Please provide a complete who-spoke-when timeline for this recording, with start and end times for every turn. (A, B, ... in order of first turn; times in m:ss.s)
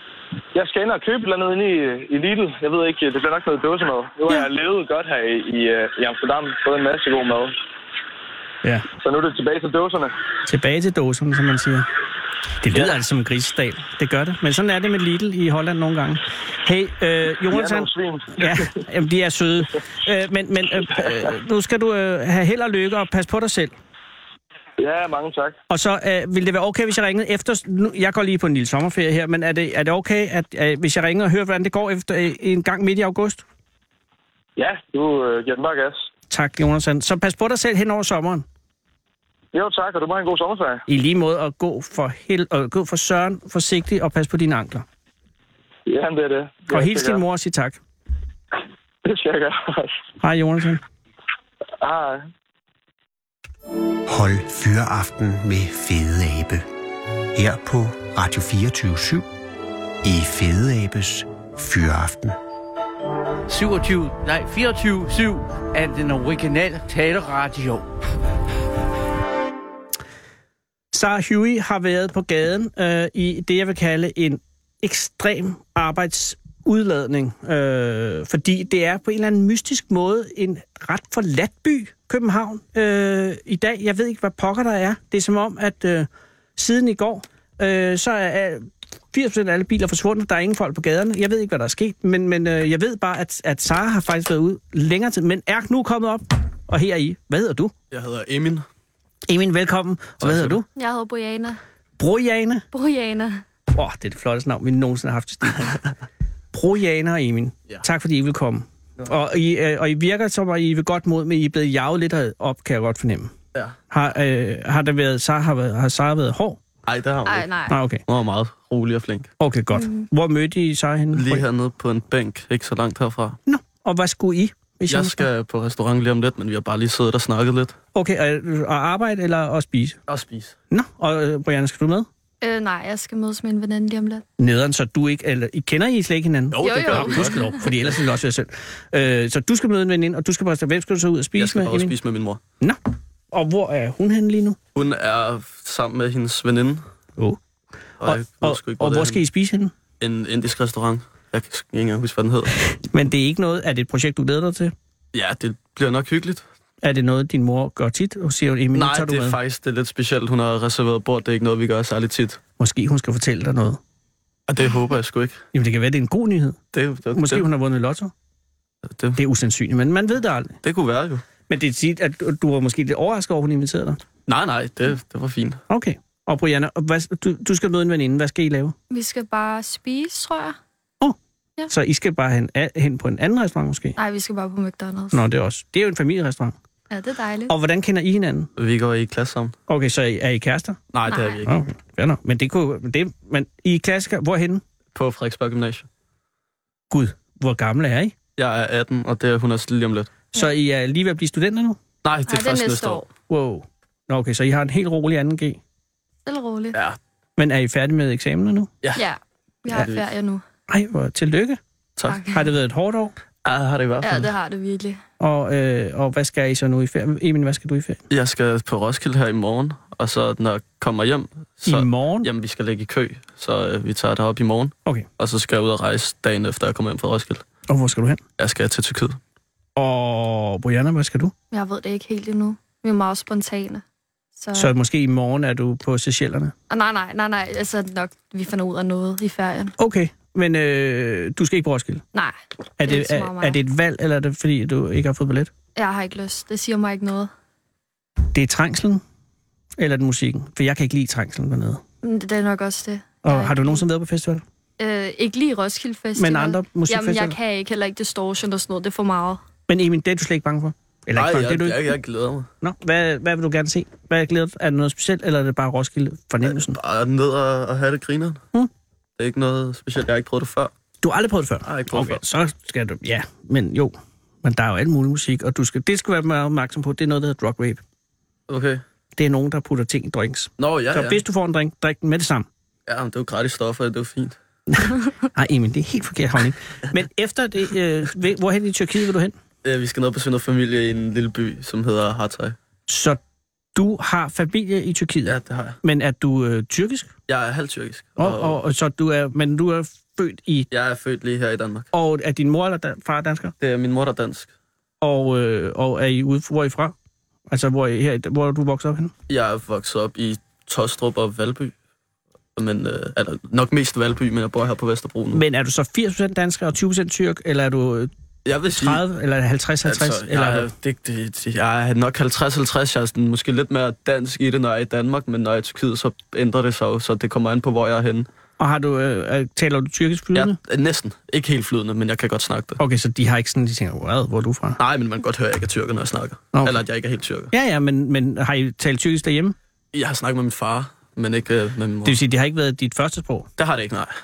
0:00.5-0:07.5 A
0:09.0-0:10.1 A
0:10.4-0:11.9 B
0:12.6-0:23.7 B
0:17.5-0:18.7 A
0:24.8-0:25.6 A
0:25.7-0:33.4 B
0:34.6-0:36.0 A
0:36.3-0:38.4 B
0:39.5-0:40.8 A
0:40.9-0:44.8 B
0:45.9-0:47.2 A
0:46.7-0:47.8 B
0:49.0-0:50.0 A
0:50.2-0:50.8 B
0:51.8-0:52.2 A
0:54.0-0:56.6 C
0:57.3-0:59.2 C
1:00.0-1:02.4 C
1:03.5-1:07.8 D
1:10.9-1:37.7 B
1:37.9-1:38.6 E
1:39.3-1:40.6 B
1:40.2-1:40.6 E
1:40.7-1:41.6 F
1:42.0-1:42.6 B
1:42.7-1:43.4 F
1:43.7-1:45.9 B
1:46.5-1:53.3 B
1:53.9-1:56.6 B
1:56.8-1:57.5 E
1:57.2-1:57.8 F
1:57.7-1:58.0 B
1:58.1-1:59.3 E
1:59.4-2:01.4 B
1:59.7-2:00.1 F
2:01.1-2:03.4 E
2:03.4-2:05.3 B
2:04.9-2:07.8 E
2:07.9-2:10.0 B
2:10.1-2:10.6 E
2:10.7-2:12.1 B
2:12.4-2:14.2 F
2:14.4-2:21.9 B
2:16.5-2:18.0 E
2:16.6-2:17.6 F
2:21.4-2:22.4 E
2:23.3-2:24.6 B
2:24.7-2:26.8 E
2:28.0-2:29.7 B
2:28.0-2:29.2 E
2:30.0-2:32.5 E
2:32.7-2:34.7 B
2:35.1-2:36.4 E
2:36.8-2:39.4 B
2:38.7-2:42.4 E
2:42.6-2:43.8 B
2:44.5-2:45.4 E
2:45.5-2:46.6 B
2:46.7-2:47.4 E
2:47.1-2:48.1 B
2:48.8-2:49.2 E
2:49.2-2:50.6 B
2:50.6-2:51.2 E
2:51.5-2:54.0 B
2:54.3-2:55.6 E
2:55.7-2:58.7 B
2:58.9-3:00.6 F
3:01.7-3:04.0 B
3:04.0-3:05.2 F
3:05.1-3:06.5 B
3:06.9-3:07.5 F
3:07.5-3:08.5 B
3:08.6-3:09.6 E
3:09.7-3:10.9 B
3:10.9-3:11.5 E
3:11.0-3:11.4 F
3:11.4-3:14.6 B
3:14.9-3:15.9 E
3:16.9-3:18.1 B
3:18.4-3:20.2 E
3:20.3-3:21.8 B
3:22.0-3:23.0 E
3:22.3-3:23.1 F
3:23.3-3:25.6 B
3:26.2-3:26.8 F
3:27.4-3:28.7 B
3:29.0-3:30.4 F
3:29.7-3:30.1 E
3:30.7-3:31.6 B
3:32.0-3:32.2 E
3:32.0-3:32.4 F
3:32.3-3:33.1 B
3:33.4-3:34.3 E
3:34.0-3:35.0 F
3:35.2-3:38.0 B
3:38.1-3:47.4 E
3:41.6-3:42.3 B
3:47.7-3:48.2 B
3:48.4-3:49.2 E
3:49.8-3:51.3 B
3:51.5-3:53.8 F
3:54.4-3:54.7 F
3:54.5-3:56.5 B
3:56.7-3:59.7 F
3:59.8-4:02.0 B
4:02.1-4:03.6 F
4:02.8-4:05.5 B
4:05.8-4:07.3 F
4:08.3-4:09.0 B
4:09.8-4:11.8 B
4:12.0-4:13.8 F
4:13.2-4:14.4 B
4:14.8-4:19.4 F
4:16.2-4:17.4 B
4:19.7-4:22.0 B
4:21.1-4:22.5 E
4:22.6-4:26.8 B
4:26.4-4:28.4 E
4:29.2-4:30.7 E
4:31.0-4:37.8 B
4:31.6-4:32.2 E
4:38.5-4:38.8 E
4:39.2-4:42.5 B
4:40.6-4:41.2 E
4:42.8-4:44.4 E
4:44.7-4:49.3 B
4:49.6-4:52.6 E
4:52.9-4:53.2 B
4:53.7-4:57.1 B
4:55.2-4:55.8 E
4:57.3-4:58.6 E
4:58.2-5:00.7 B
5:00.7-5:01.9 E
5:01.9-5:03.5 B
5:03.6-5:04.5 E
5:05.0-5:06.9 B
5:07.5-5:09.1 B
5:09.3-5:11.7 E
5:12.6-5:15.4 E
5:15.3-5:18.1 B
5:18.4-5:19.0 E
5:18.7-5:20.7 B
5:19.8-5:28.3 E
5:28.6-5:30.6 B
5:30.3-5:32.8 E
5:32.8-5:34.8 B
5:34.8-5:37.5 E
5:36.5-5:36.8 B
5:37.5-5:39.5 B
5:39.9-5:42.2 E
5:42.0-5:43.5 B
5:43.6-5:44.1 E